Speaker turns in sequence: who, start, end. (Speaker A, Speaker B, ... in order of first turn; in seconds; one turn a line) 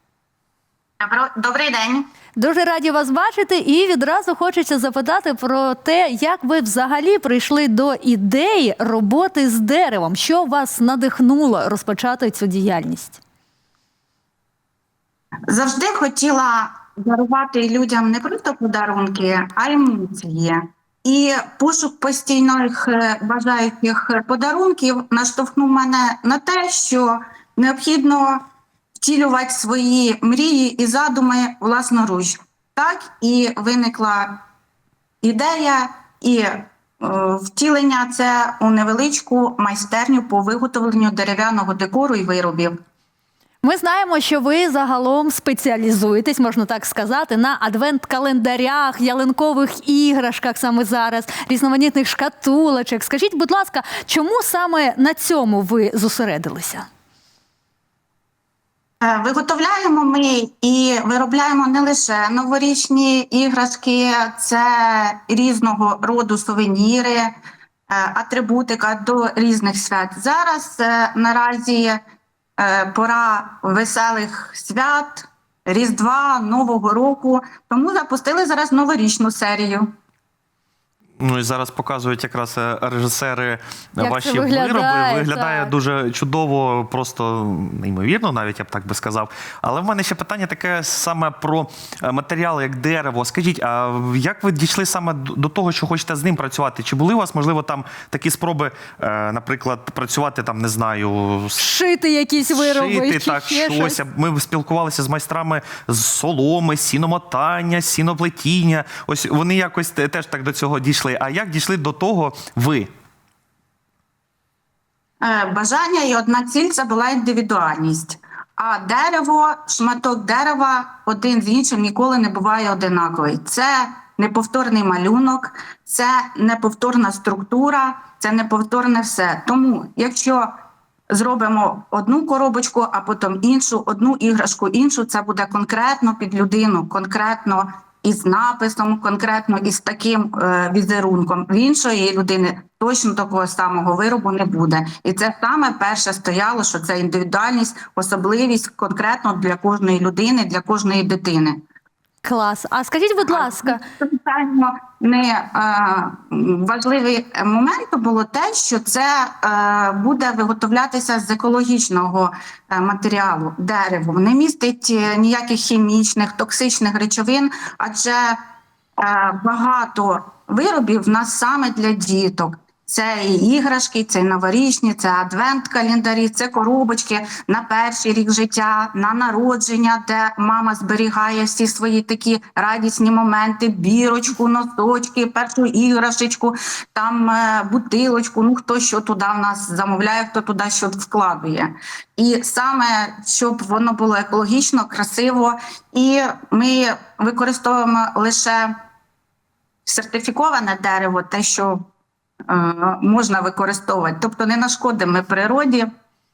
Speaker A: 1.0-2.1
Speaker B: 2.4-13.2
Speaker A: 15.5-28.4
Speaker A: 29.0-34.4
Speaker A: 35.2-42.8
Speaker B: 43.6-56.9
Speaker A: 59.0-67.3
Speaker A: 67.9-72.0
Speaker A: 72.6-79.9
Speaker C: 81.2-101.7
Speaker B: 84.0-85.7
Speaker B: 101.6-104.0
Speaker C: 102.5-112.9
Speaker A: 115.2-130.5
Speaker A: 131.1-151.6
Speaker B: 152.2-153.8
Speaker A: 153.3-168.4
Speaker A: 169.0-198.8
Speaker A: 199.9-201.9
Speaker A: 202.5-205.9